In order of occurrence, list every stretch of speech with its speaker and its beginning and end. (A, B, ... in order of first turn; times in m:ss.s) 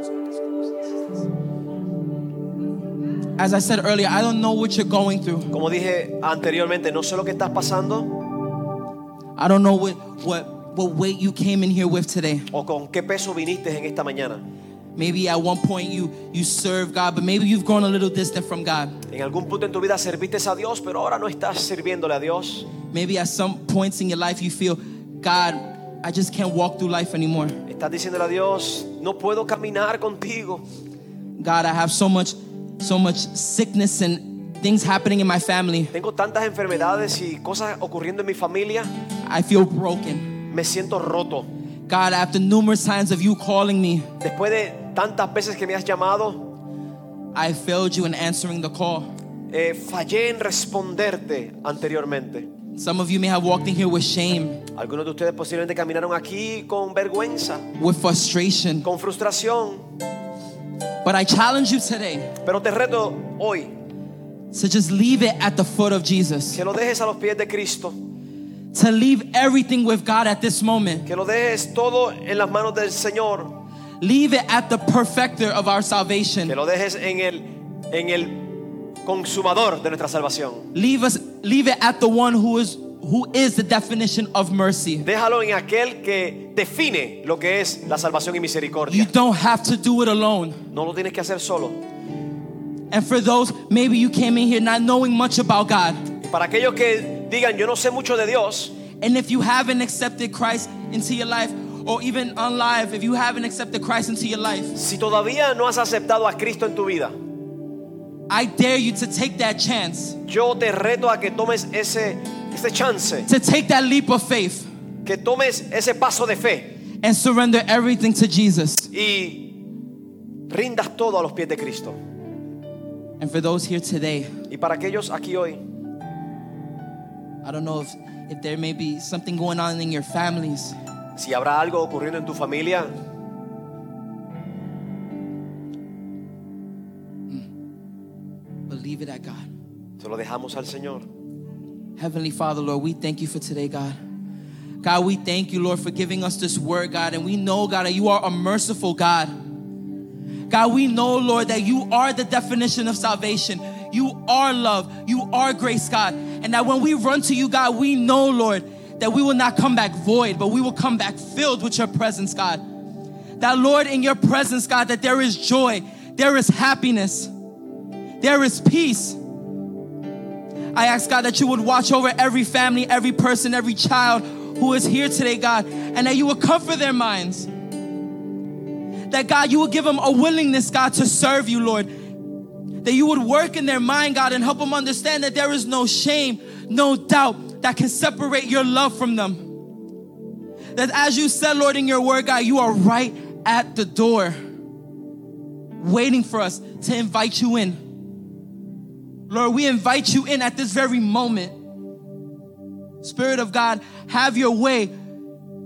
0:03.4-0:05.5 A
0:05.5-0:08.2 B
0:09.4-0:12.5 A
0:12.5-0:14.4 B
0:15.0-0:19.0 A
0:19.1-0:22.7 B
0:22.9-0:27.6 A
0:27.7-0:30.6 B
0:31.4-0:35.9 A
0:35.9-0:38.9 B
0:39.3-0:40.4 A
0:40.5-0:41.5 B
0:41.9-0:44.1 A
0:44.2-0:46.5 B
0:47.4-0:49.1 A
0:49.5-0:52.5 B
0:52.8-0:54.6 A
0:54.7-0:57.7 B
0:57.8-0:58.9 A
0:58.8-0:59.9 B
1:01.0-1:02.4 A
1:02.4-1:03.7 B
1:04.5-1:06.6 A
1:06.5-1:08.0 B
1:08.7-1:11.1 A
1:11.1-1:13.5 B
1:14.0-1:16.6 A
1:16.5-1:20.7 B
1:20.7-1:25.1 A
1:25.0-1:29.1 B
1:28.9-1:30.6 A
1:30.7-1:31.8 B
1:32.9-1:36.1 A
1:36.2-1:38.8 B
1:39.0-1:44.8 A
1:44.8-1:47.2 B
1:48.3-1:50.2 A
1:50.3-1:53.3 B
1:53.3-1:54.7 A
1:55.0-1:56.7 B
1:57.0-1:58.9 A
1:58.9-1:59.6 B
2:00.5-2:02.0 B
2:03.2-2:04.4 A
2:04.5-2:05.6 B
2:07.4-2:10.8 A
2:11.2-2:12.9 B
2:18.7-2:19.5 A
2:20.0-2:21.1 B
2:22.0-2:24.0 A
2:24.8-2:29.3 A
2:30.5-2:42.6 A
2:43.4-2:47.3 A
2:48.2-2:49.2 A
2:50.7-2:57.5 A
2:59.1-3:01.9 A
3:02.8-3:09.5 A
3:10.8-3:14.4 A
3:15.8-3:17.8 A
3:19.3-3:21.6 A
3:23.0-3:24.9 A